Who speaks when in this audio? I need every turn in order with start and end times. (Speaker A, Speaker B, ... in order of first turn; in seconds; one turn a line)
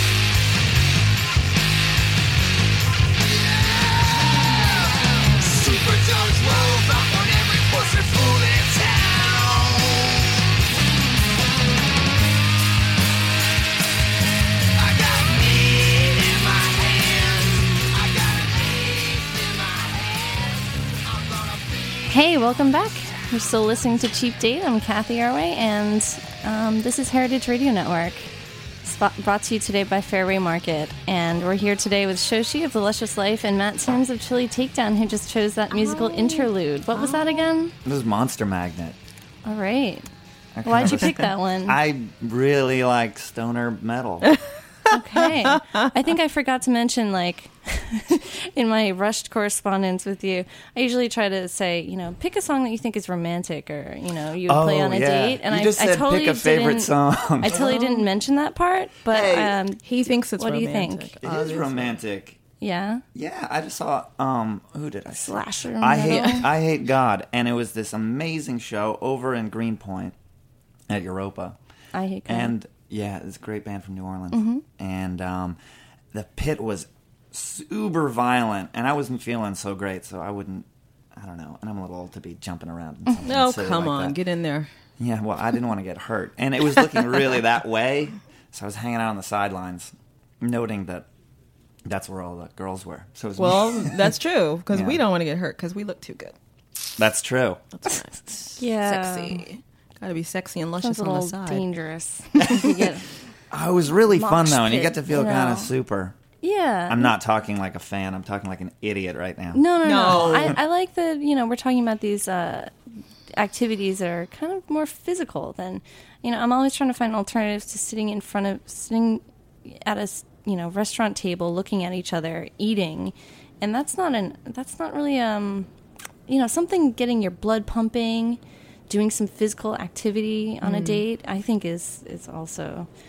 Speaker A: 3.2-10.3
Speaker A: 14.8-22.3
Speaker B: 22.1-28.3
Speaker B: 28.8-37.8
Speaker C: 35.7-37.5
Speaker D: 37.9-39.0
Speaker B: 39.5-40.1
Speaker D: 40.5-44.3
Speaker B: 40.6-41.8
Speaker B: 44.9-59.9
Speaker D: 54.5-57.6
Speaker C: 57.4-58.1
Speaker C: 59.1-62.0
Speaker B: 60.4-61.1
Speaker D: 61.2-62.4
Speaker B: 62.6-63.0
Speaker D: 63.1-70.2
Speaker B: 65.3-66.5
Speaker D: 70.9-71.6
Speaker B: 71.9-72.5
Speaker D: 72.3-75.6
Speaker B: 74.3-74.6
Speaker D: 76.1-84.2
Speaker C: 83.2-84.7
Speaker D: 85.0-91.1
Speaker D: 91.9-94.1
Speaker C: 93.4-96.3
Speaker D: 94.7-95.0
Speaker D: 97.0-97.7
Speaker C: 97.7-101.7
Speaker B: 98.6-99.5
Speaker B: 100.8-103.0
Speaker D: 102.4-102.7
Speaker D: 103.5-106.2
Speaker B: 104.1-105.7
Speaker B: 106.4-107.2
Speaker D: 106.9-110.5
Speaker B: 109.5-112.7
Speaker C: 109.8-110.6
Speaker B: 113.3-125.7
Speaker B: 126.3-132.9
Speaker C: 130.6-131.0